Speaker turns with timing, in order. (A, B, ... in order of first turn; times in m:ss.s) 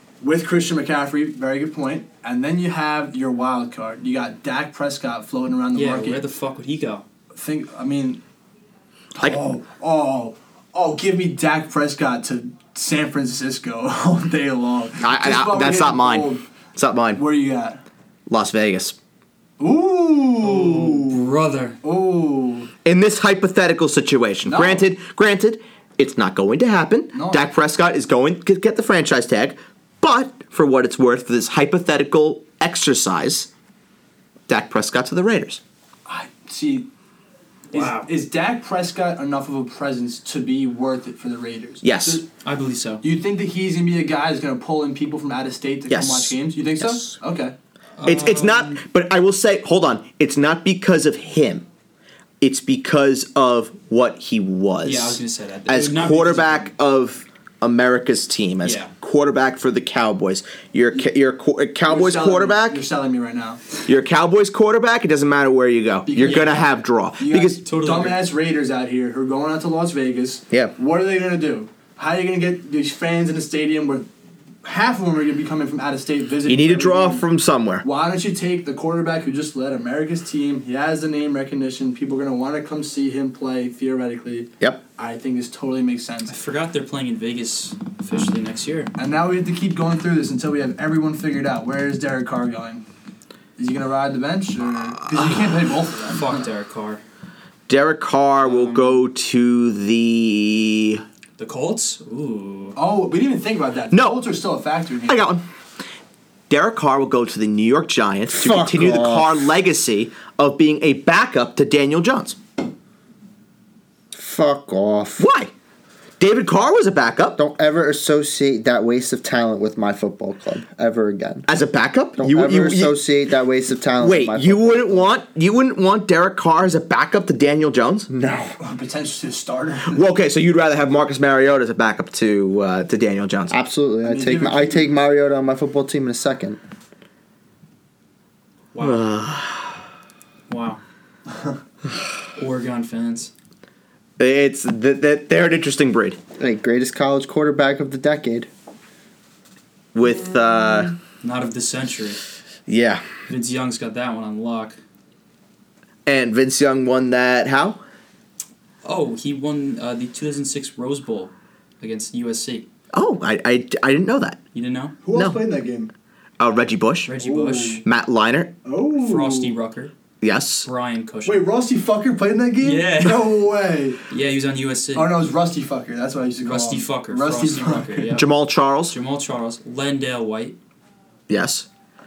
0:00.2-0:06.2 A
0:05.7-0:07.0 B
0:07.3-0:08.2 A
0:09.1-0:16.4 A
0:15.0-0:17.2 C
0:17.1-0:17.8 A
0:18.3-0:19.0 C
0:19.6-0:21.2 A
0:20.4-0:21.8 B
0:21.8-0:22.7 A
0:22.8-0:33.5 C
0:24.4-0:24.9 A
0:27.1-0:27.5 A
0:34.5-0:35.6 C
0:36.0-0:36.9 A
0:37.7-0:38.1 B
0:37.7-0:42.2 A
0:41.8-0:42.2 C
0:42.4-0:43.0 B
0:43.0-0:47.5 A
0:45.9-0:47.1 C
0:48.0-0:48.8 B
0:48.0-0:51.6 C
0:52.4-1:02.8 C
0:54.8-0:56.7 B
0:58.6-0:58.9 B
1:01.8-1:03.6 A
1:03.9-1:07.6 C
1:06.0-1:06.6 A
1:06.2-1:06.6 B
1:07.2-1:14.1 A
1:07.6-1:08.2 B
1:14.6-1:17.2 A
1:16.4-1:17.8 C
1:17.8-1:26.4 A
1:26.3-1:28.9 B
1:29.0-1:32.8 A
1:33.6-1:36.3 A
1:36.0-1:37.0 B
1:37.7-1:41.0 C
1:38.4-1:39.0 B
1:41.4-1:42.8 B
1:42.7-1:45.2 A
1:43.9-1:44.2 C
1:45.1-1:45.4 C
1:46.5-1:52.4 C
1:48.3-1:49.4 D
1:54.1-1:55.2 D
1:55.2-1:55.5 C
1:56.2-1:57.4 C
1:57.4-2:01.5 D
2:01.5-2:03.0 C
2:02.2-2:05.1 D
2:04.0-2:08.1 C
2:08.1-2:08.5 D
2:08.6-2:10.0 A
2:09.9-2:13.6 C
2:13.5-2:16.6 D
2:14.0-2:14.9 A
2:18.7-2:19.0 B
2:18.8-2:19.8 C
2:20.5-2:20.8 B
2:22.4-2:23.3 B
2:24.2-2:26.2 C
2:26.4-2:28.5 D
2:29.9-2:31.0 C
2:31.2-2:32.2 B
2:32.7-2:33.0 C
2:33.3-2:34.8 B
2:36.0-2:37.8 C
2:38.8-2:42.6 B
2:42.9-2:44.4 C
2:44.5-2:45.0 B
2:45.0-2:45.9 A
2:46.4-2:47.1 C
2:47.1-2:47.8 B
2:47.2-2:47.8 A
2:47.8-2:48.5 C
2:48.6-2:49.5 A
2:49.0-2:49.9 B
2:50.2-2:50.7 C
2:50.6-2:51.4 B
2:51.2-2:54.0 A
2:52.6-2:53.4 B
2:54.1-2:55.1 B
2:54.9-2:58.2 A
2:56.4-2:58.3 B
2:58.1-2:59.0 C
2:58.9-3:00.6 B
3:01.3-3:01.7 C